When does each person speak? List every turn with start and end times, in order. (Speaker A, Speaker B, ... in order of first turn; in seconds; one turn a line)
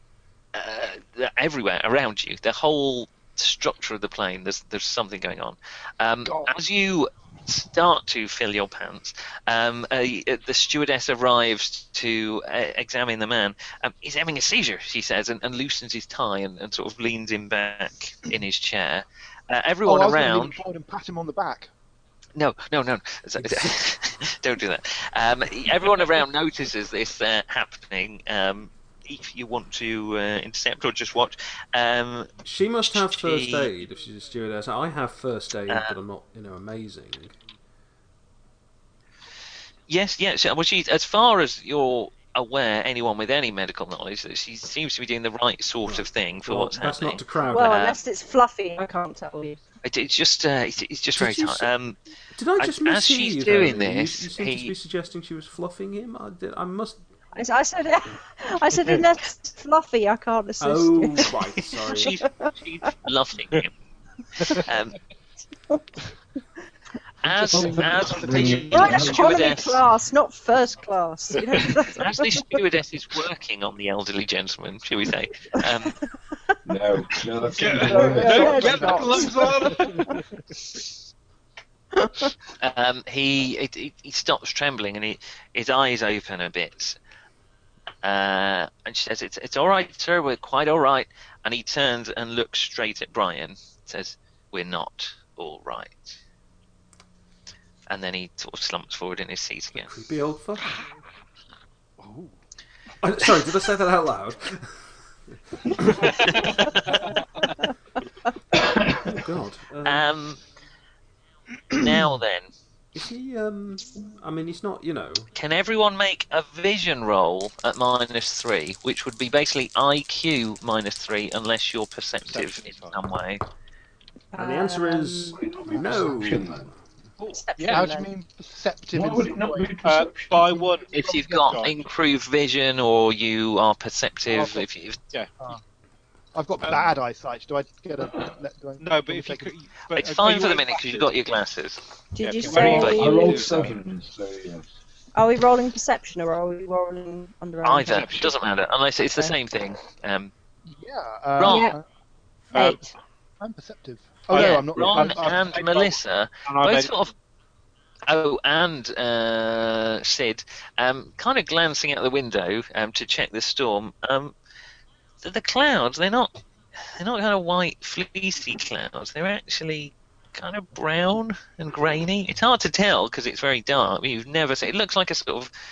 Speaker A: 0.5-20.6
Speaker B: 6.2-6.5
Speaker B: 19.9-21.7
Speaker A: 22.4-32.3
Speaker C: 32.4-37.4
Speaker A: 32.8-33.8
Speaker A: 35.7-36.0
Speaker A: 39.9-48.0
Speaker C: 45.9-47.9
Speaker D: 47.5-49.6
Speaker A: 49.8-52.0
Speaker C: 51.2-51.7
Speaker C: 52.3-57.0
Speaker A: 52.6-54.7
Speaker D: 57.4-61.3
Speaker C: 60.6-62.1
Speaker A: 61.9-63.7
Speaker D: 62.2-62.5
Speaker A: 64.4-65.0
Speaker A: 67.2-69.8
Speaker E: 67.3-69.4
Speaker D: 68.7-72.4
Speaker A: 71.9-76.0
Speaker E: 76.7-79.5
Speaker F: 77.6-80.1
Speaker D: 77.8-79.9
Speaker B: 77.8-79.9
Speaker A: 82.6-87.0
Speaker A: 88.0-96.2
Speaker A: 97.9-99.9
Speaker C: 99.8-100.7
Speaker B: 102.0-102.3
Speaker C: 103.0-106.1
Speaker A: 106.3-106.7
Speaker E: 108.6-109.1
Speaker C: 109.0-110.1
Speaker A: 109.8-110.4
Speaker A: 111.7-112.5
Speaker C: 112.9-115.3
Speaker A: 115.3-123.4
Speaker F: 122.3-123.0
Speaker D: 124.3-125.4
Speaker C: 124.4-126.7
Speaker E: 125.3-126.7
Speaker D: 127.2-128.1
Speaker F: 127.6-127.9
Speaker B: 127.7-129.8
Speaker E: 128.9-130.5
Speaker F: 129.8-131.7
Speaker B: 130.4-130.7
Speaker A: 130.9-135.0
Speaker F: 134.3-135.3
Speaker B: 136.3-139.5
Speaker F: 136.6-136.9
Speaker F: 138.8-141.1
Speaker A: 139.9-141.8
Speaker D: 142.2-143.5
Speaker F: 142.2-143.7
Speaker A: 142.5-143.3
Speaker E: 142.7-144.7
Speaker D: 145.2-148.1
Speaker A: 147.6-150.3
Speaker F: 147.9-148.4
Speaker B: 150.7-151.8
Speaker A: 151.4-151.7
Speaker D: 151.4-151.8
Speaker D: 152.5-152.9
Speaker B: 152.6-152.8
Speaker B: 153.4-155.6
Speaker F: 154.3-157.0
Speaker A: 154.3-157.1
Speaker A: 158.1-164.3
Speaker A: 165.2-175.5